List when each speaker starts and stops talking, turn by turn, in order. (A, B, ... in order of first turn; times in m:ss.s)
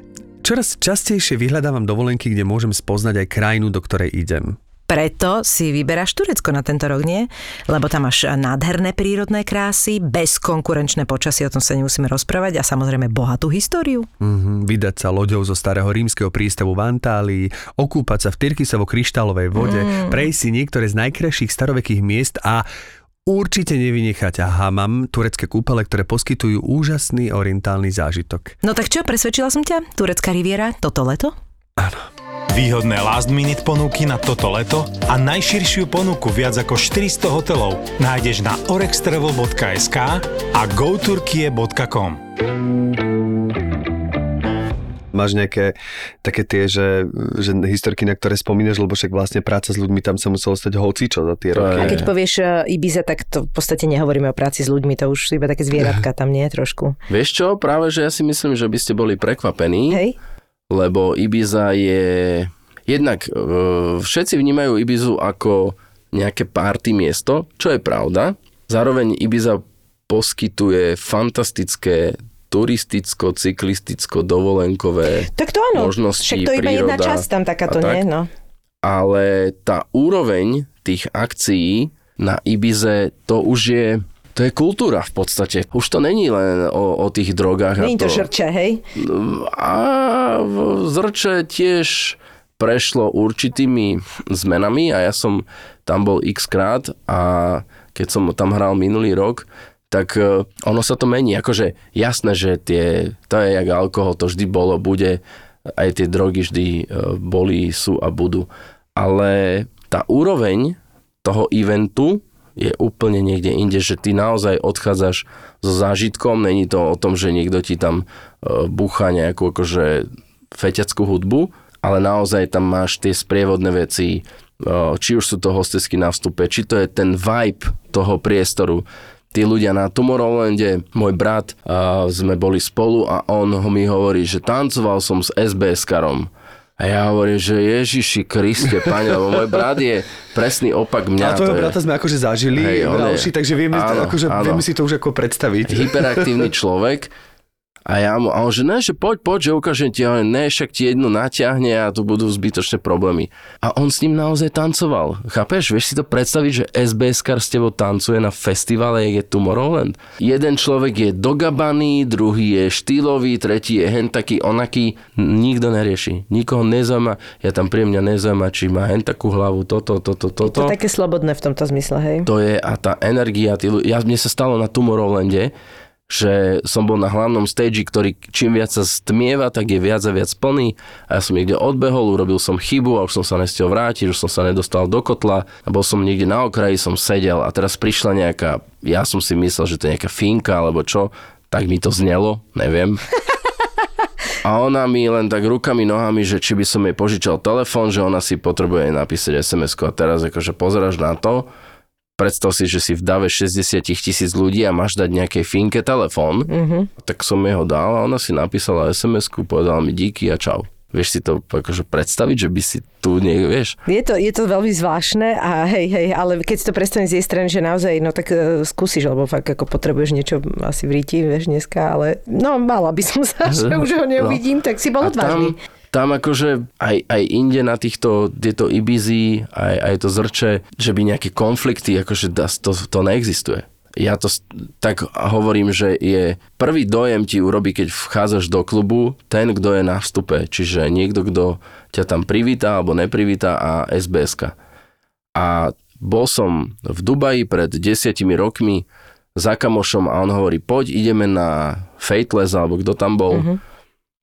0:00.4-0:04.6 A
0:04.9-0:14.1 B
0:14.2-0:22.7 A
0:19.6-0:20.2 B
0:23.3-0:28.6 A
0:28.6-0:31.3 B
0:32.5-0:42.2 C
0:45.1-0:52.1 A
0:51.5-0:52.1 D
0:51.8-0:57.0 B
0:57.1-1:00.0 D
0:59.9-1:00.2 B
1:00.7-1:18.0 D
1:15.4-1:18.3 B
1:18.8-1:28.3 D
1:27.8-1:28.8 B
1:29.0-1:45.2 D
1:45.8-2:21.8 D
2:21.2-2:26.5 A
2:22.6-2:24.6 D
2:25.7-2:27.1 D
2:27.9-2:50.8 D
2:50.4-2:52.3 B
2:52.3-2:55.5 D
2:56.1-3:13.1 D
3:14.4-3:21.5 D
3:22.2-3:26.5 D
3:26.5-3:26.9 B
3:27.0-3:33.8 D
3:33.9-3:45.6 B
3:43.5-3:44.4 D
3:45.0-4:04.5 D
4:05.4-4:08.8 D
4:09.4-4:13.5 D
4:13.3-4:13.6 B